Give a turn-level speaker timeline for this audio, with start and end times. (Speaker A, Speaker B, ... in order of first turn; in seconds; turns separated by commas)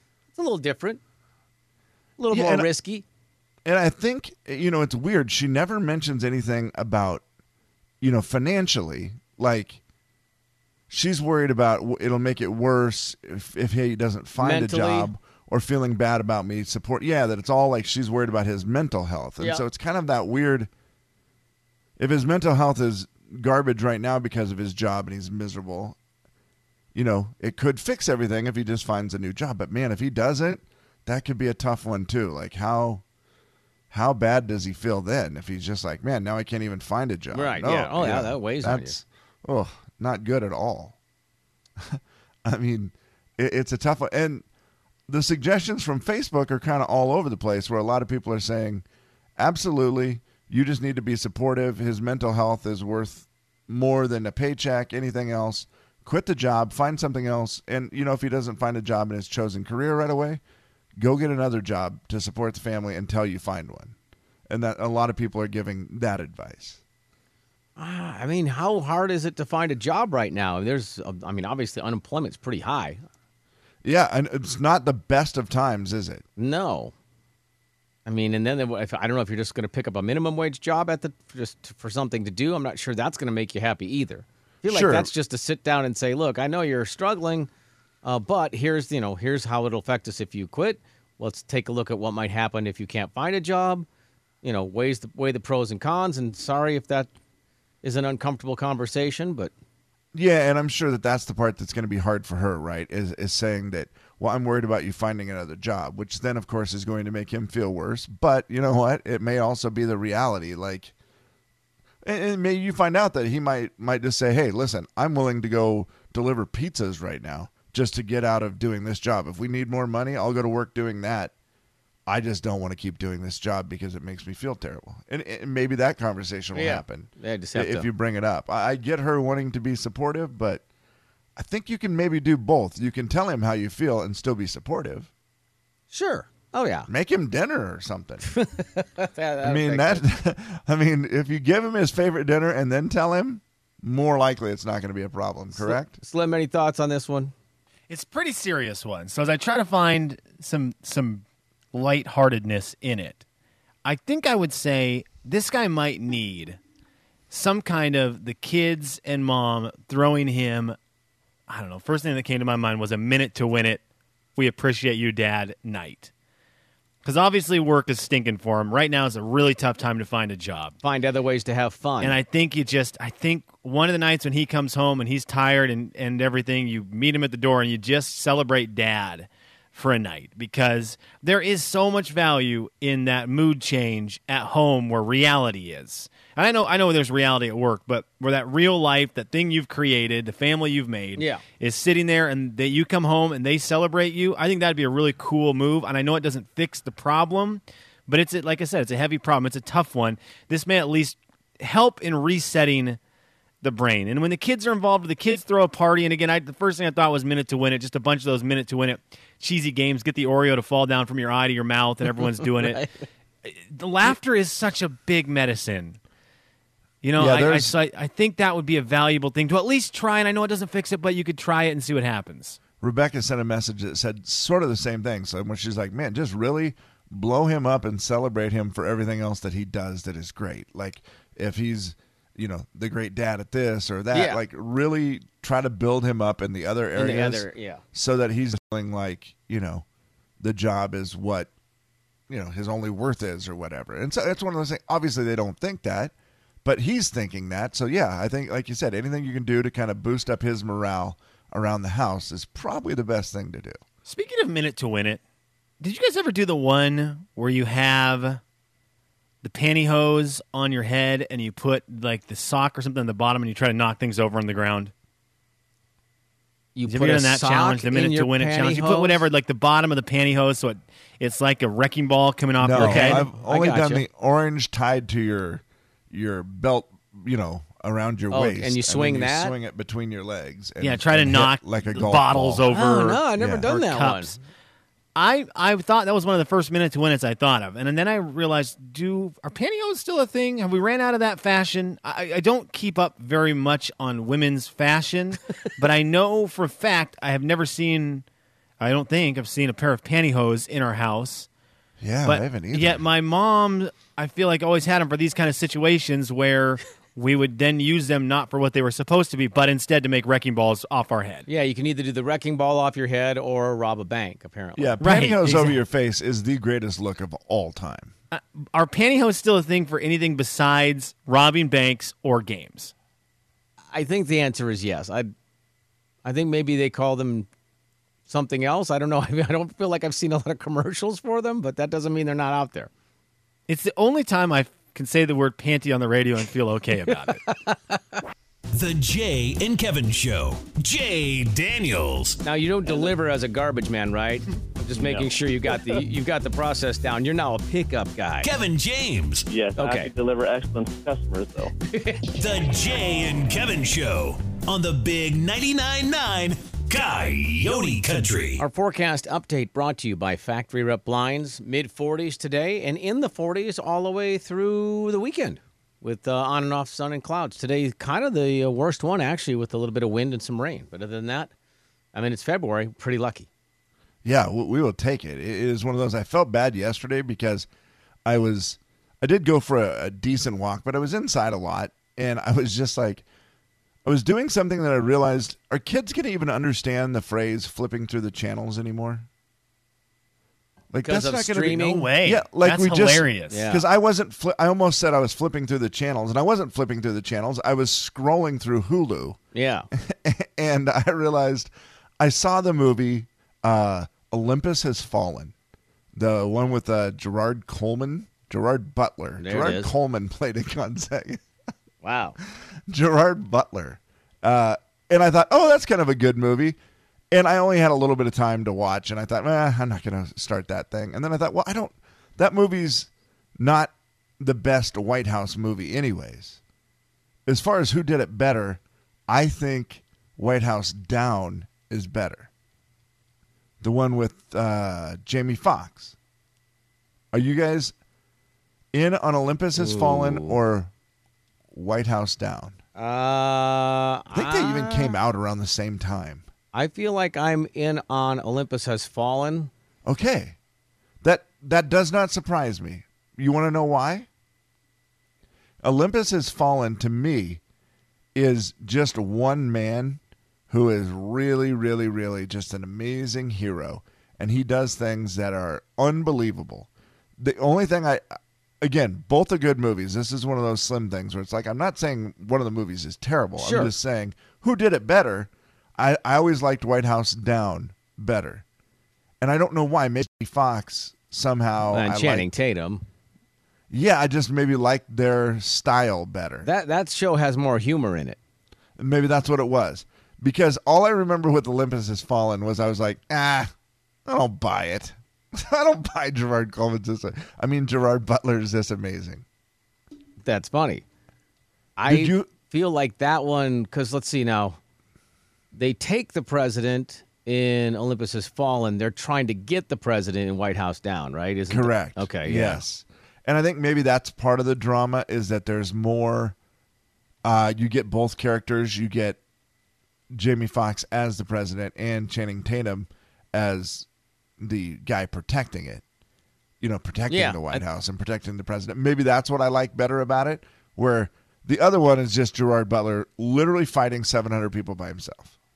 Speaker A: 0.3-1.0, Speaker A: 2.2-3.0, Speaker B: 2.3-2.7, Speaker B: 3.6-7.2, Speaker B: 8.0-9.8, Speaker B: 10.9-20.7, Speaker A: 14.4-15.1, Speaker B: 22.0-26.0, Speaker B: 26.9-33.0, Speaker B: 33.9-41.0, Speaker A: 37.3-39.0, Speaker B: 41.8-44.4, Speaker B: 45.1-48.8, Speaker B: 49.4-60.4, Speaker B: 61.0-63.9, Speaker B: 64.5-66.8, Speaker A: 67.8-73.0, Speaker B: 73.8-76.2, Speaker A: 76.4-76.9, Speaker A: 78.0-87.5, Speaker B: 84.6-85.1, Speaker A: 88.0-93.9, Speaker A: 94.4-97.1, Speaker A: 97.8-99.5, Speaker B: 100.1-110.9, Speaker B: 112.0-121.3, Speaker B: 122.1-130.6, Speaker A: 126.5-127.9, Speaker B: 131.3-135.1, Speaker A: 135.9-136.9, Speaker B: 136.9-138.3, Speaker A: 138.3-140.0, Speaker B: 139.4-146.0, Speaker A: 145.5-147.3, Speaker C: 147.9-153.2, Speaker C: 153.8-156.6, Speaker C: 157.3-160.8, Speaker C: 161.5-163.8, Speaker C: 164.3-166.1, Speaker C: 167.0-170.8, Speaker A: 170.8-172.2, Speaker C: 172.0-203.0, Speaker A: 191.2-191.4, Speaker C: 203.6-212.8, Speaker C: 213.4-216.0, Speaker C: 217.0-222.6, Speaker B: 217.2-217.7, Speaker B: 222.8-239.8, Speaker A: 234.1-234.4, Speaker A: 236.9-237.8, Speaker B: 240.4-241.5, Speaker B: 242.3-246.1, Speaker B: 246.6-253.8, Speaker C: 254.1-255.2, Speaker C: 255.8-258.4, Speaker C: 259.4-264.9, Speaker A: 266.7-269.3, Speaker C: 266.9-273.3, Speaker B: 272.6-282.6, Speaker A: 272.8-274.0, Speaker A: 278.3-279.5, Speaker C: 280.8-284.4, Speaker A: 282.7-284.4, Speaker B: 283.4-283.7, Speaker C: 285.1-298.2, Speaker C: 298.8-301.5, Speaker B: 302.0-303.0, Speaker C: 302.2-311.5, Speaker A: 311.5-315.0, Speaker B: 314.8-318.1, Speaker C: 315.0-315.8, Speaker C: 318.3-322.9, Speaker A: 323.9-325.3, Speaker A: 326.2-327.5, Speaker A: 328.3-332.9, Speaker C: 333.7-337.4, Speaker A: 337.5-338.2, Speaker D: 338.7-342.4, Speaker A: 342.4-348.5, Speaker E: 344.9-345.9, Speaker D: 348.4-349.5, Speaker E: 349.5-351.7, Speaker A: 349.8-350.1, Speaker A: 351.8-352.2, Speaker D: 352.3-358.6, Speaker A: 358.6-371.5, Speaker A: 372.1-373.5, Speaker B: 374.2-377.7, Speaker B: 378.2-383.2, Speaker B: 384.0-389.3, Speaker B: 390.9-399.4, Speaker A: 391.0-392.0, Speaker C: 391.7-393.7, Speaker A: 393.5-393.8, Speaker A: 399.5-399.9, Speaker B: 399.9-405.5, Speaker B: 406.1-411.4, Speaker A: 409.4-409.9, Speaker A: 412.0-412.4, Speaker B: 412.9-416.8, Speaker B: 417.3-426.6, Speaker B: 427.4-432.5, Speaker B: 433.8-436.1, Speaker B: 437.3-437.9, Speaker B: 438.9-440.9, Speaker A: 439.8-440.6, Speaker B: 441.7-442.8, Speaker A: 442.9-445.1, Speaker B: 444.3-446.4, Speaker A: 446.7-449.7, Speaker B: 450.0-450.6, Speaker B: 451.2-454.3, Speaker B: 455.8-457.6, Speaker B: 458.3-468.2, Speaker B: 468.8-478.6, Speaker A: 473.6-473.9, Speaker B: 479.4-482.5, Speaker A: 481.9-483.0, Speaker B: 483.9-486.7, Speaker A: 486.6-488.4, Speaker B: 489.0-493.7, Speaker B: 494.2-499.4, Speaker A: 500.4-501.0, Speaker A: 502.0-504.8, Speaker B: 502.1-502.5, Speaker A: 505.7-512.8, Speaker B: 511.7-516.5, Speaker B: 517.4-519.4, Speaker B: 520.3-524.1, Speaker B: 524.6-526.0, Speaker B: 526.8-535.5, Speaker A: 527.3-527.8